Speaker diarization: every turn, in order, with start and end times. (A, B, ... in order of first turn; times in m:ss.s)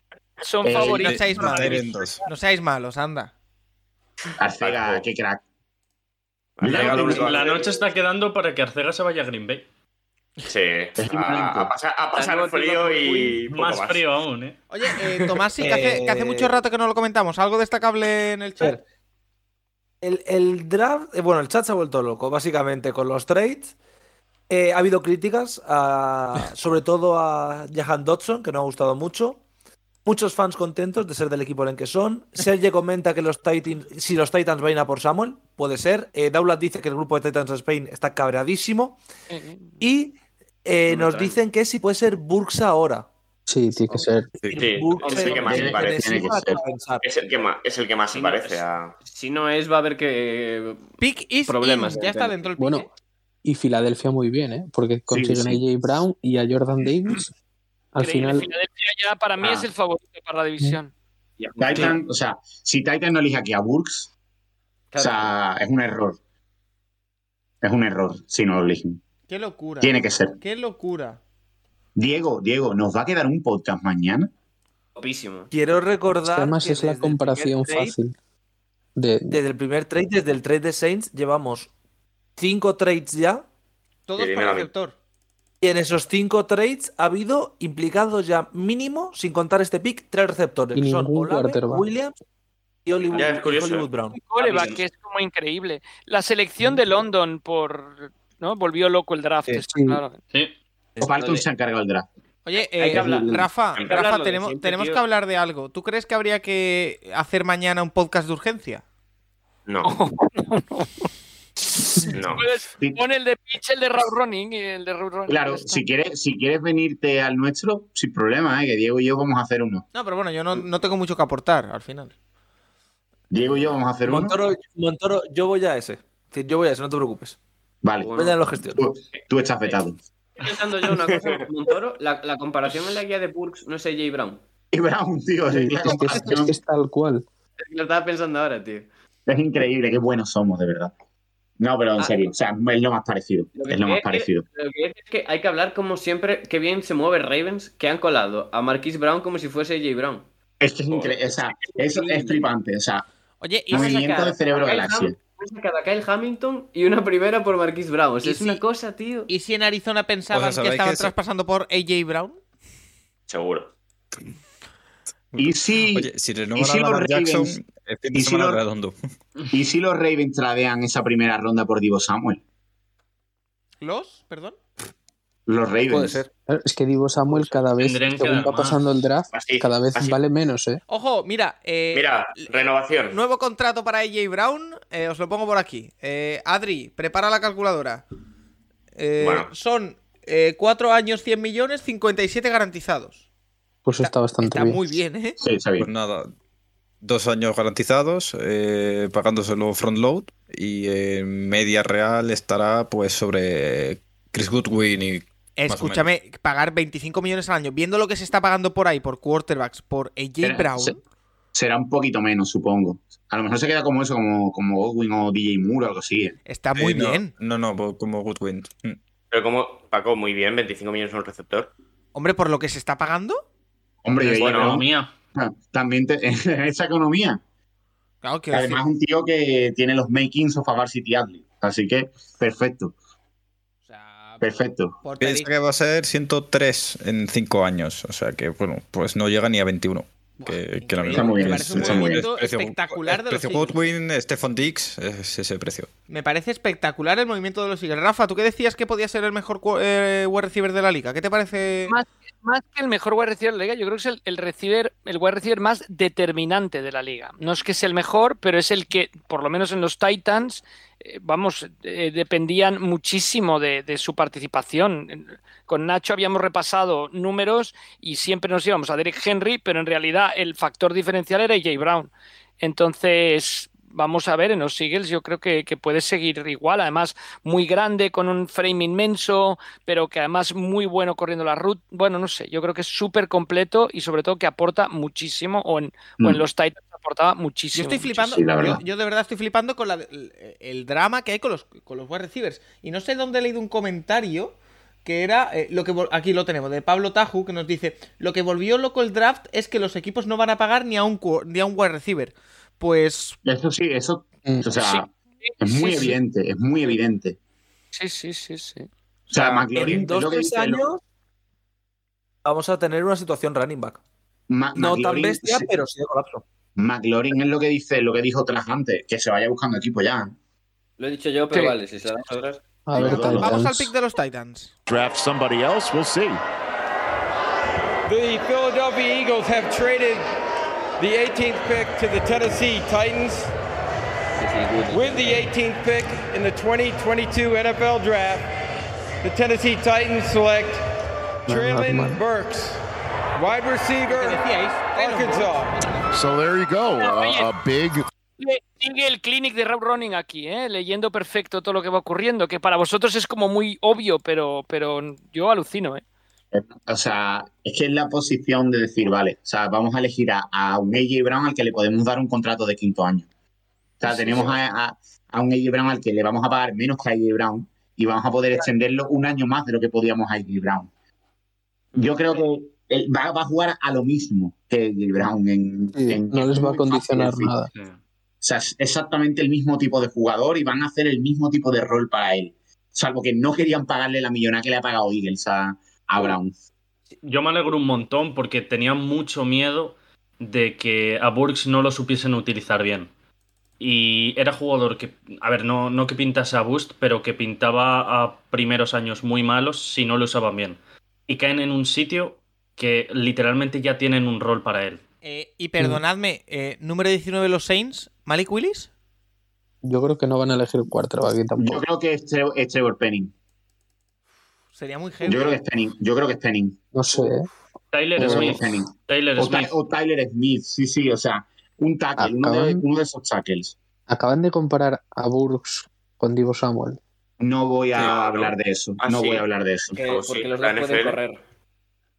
0:00.4-0:01.3 A
0:00.6-0:01.1 B
0:00.7-0:03.3 C
0:00.8-0:02.2 D
0:04.4-0:05.4 B
0:04.6-0:05.1 E
0:06.6-0:07.9 E
0:06.6-0:07.4 B
0:06.6-0:09.6 F
0:10.5-0:14.0 E
0:11.0-0:11.7 B
0:12.1-0:13.4 G
0:13.5-0:14.6 F
0:14.7-0:18.8 C
0:15.6-0:16.6 H
0:20.0-0:23.7 H
0:24.5-0:29.4 H
0:30.0-0:39.0 H
0:39.3-0:39.9 A
0:39.8-0:43.1 H
0:40.9-0:41.4 G
0:43.5-0:44.4 I
0:44.5-0:47.1 H
0:44.5-0:46.3 E
0:45.0-0:45.4 G
0:45.3-0:46.6 B
0:47.0-0:48.9 E
0:48.1-0:50.9 G
0:51.0-0:52.9 C
0:51.5-0:52.4 G
0:52.6-0:52.9 I
0:53.4-0:57.3 I
0:55.1-0:55.6 B
0:57.9-0:58.5 I
0:58.0-1:00.9 A
0:59.4-0:59.7 B
1:01.4-1:02.0 G
1:01.6-1:04.1 B
1:04.9-1:05.4 G
1:05.0-1:06.2 B
1:07.6-1:09.0 B
1:09.3-1:11.2 C
1:09.8-1:10.4 B
1:12.0-1:14.3 B
1:15.0-1:15.5 G
1:15.5-1:18.0 H
1:16.2-1:18.2 I
1:19.0-1:19.4 I
1:19.3-1:21.7 H
1:22.4-1:23.4 H
1:24.1-1:25.0 C
1:24.2-1:24.7 E
1:25.6-1:32.1 H
1:30.8-1:31.9 I
1:32.8-1:34.2 H
1:33.1-1:33.9 E
1:34.2-1:40.2 A
1:34.4-1:34.8 G
1:39.5-1:40.0 I
1:41.0-1:41.5 G
1:41.0-1:42.1 B
1:42.5-1:48.8 C
1:42.8-1:45.0 G
1:42.9-1:43.5 B
1:43.8-1:44.1 E
1:49.7-1:49.9 E
1:49.8-1:51.1 A
1:52.1-1:52.4 E
1:52.3-1:55.9 A
1:55.3-1:59.9 B
1:59.9-2:02.1 C
2:03.3-2:04.4 B
2:04.0-2:07.4 H
2:07.8-2:10.0 B
2:08.0-2:08.4 G
2:08.1-2:08.8 H
2:09.1-2:09.8 G
2:10.4-2:14.4 G
2:14.7-2:16.6 B
2:15.5-2:17.2 I
2:17.6-2:18.9 G
2:19.3-2:20.9 B
2:21.6-2:24.4 B
2:22.0-2:22.3 G
2:23.6-2:30.3 G
2:30.6-2:33.0 B
2:30.9-2:32.5 G
2:33.4-2:34.3 C
2:33.7-2:35.2 B
2:33.7-2:39.3 G
2:38.2-2:38.6 C
2:39.3-2:42.4 C
2:40.3-2:41.1 D
2:43.3-2:43.7 E
2:45.3-2:49.0 D
2:45.4-2:47.6 B
2:48.1-2:48.6 B
2:49.5-2:52.4 B
2:53.8-2:54.6 C
2:55.5-2:56.2 B
2:55.9-2:56.3 H
2:56.5-3:00.8 I
2:57.8-2:58.8 F
2:59.3-3:00.2 E
3:00.9-3:08.0 C
3:01.9-3:03.2 E
3:09.0-3:13.2 C
3:09.2-3:09.5 E
3:13.8-3:15.0 I
3:14.0-3:15.4 C
3:15.4-3:15.9 B
3:15.8-3:16.3 D
3:17.0-3:26.1 D
3:25.6-3:31.0 C
3:30.4-3:31.0 B
3:31.5-3:36.4 B
3:36.5-3:37.4 C
3:36.7-3:39.0 D
3:39.3-3:41.7 E
3:42.2-3:43.4 C
3:44.0-3:47.4 B
3:44.2-3:45.1 F
3:48.2-3:48.8 C
3:48.5-3:53.0 B
3:53.9-3:55.5 C
3:54.4-3:55.0 B
3:55.2-4:05.9 D
4:00.4-4:03.8 C
4:01.1-4:02.3 B
4:06.1-4:11.9 C
4:11.9-4:48.3 A
4:47.7-5:03.4 C
4:48.3-4:48.8 B
5:03.4-5:05.1 B
5:05.4-5:06.2 A
5:05.6-5:07.4 B
5:07.9-5:08.9 A
5:09.3-5:10.8 B
5:09.3-5:11.0 H
5:12.4-5:14.0 H
5:14.5-5:15.7 B
5:14.7-5:16.4 H
5:16.8-5:20.4 B
5:21.0-5:22.6 G
5:22.9-5:23.9 I
5:23.0-5:23.6 B
5:23.0-5:24.7 C
5:24.9-5:26.4 J
5:28.1-5:30.3 K
5:31.0-5:33.5 K
5:34.4-5:35.5 G
5:34.9-5:38.5 K
5:39.2-5:40.8 K
5:41.5-5:42.2 I
5:41.5-5:42.8 K
5:43.4-5:45.8 K
5:44.1-5:46.0 C
5:46.1-5:48.1 J
5:47.0-5:47.5 A
5:48.4-5:56.0 A
5:56.5-6:03.3 B
6:04.0-6:10.9 B
6:11.9-6:12.4 G
6:12.0-6:17.5 B
6:15.9-6:17.7 I
6:17.7-6:18.0 F
6:18.4-6:26.5 B
6:27.2-6:33.1 F
6:33.8-6:45.0 F
6:45.2-6:48.9 C
6:49.8-6:51.8 I
6:51.6-6:53.3 B
6:54.8-6:55.6 C
6:55.2-6:56.8 B
6:56.9-6:57.5 I
6:57.9-6:59.7 F
6:58.2-6:58.7 I
6:58.2-7:03.8 B
7:02.2-7:02.8 I
7:04.1-7:07.0 I
7:07.4-7:10.0 B
7:07.9-7:11.2 E
7:10.0-7:11.4 G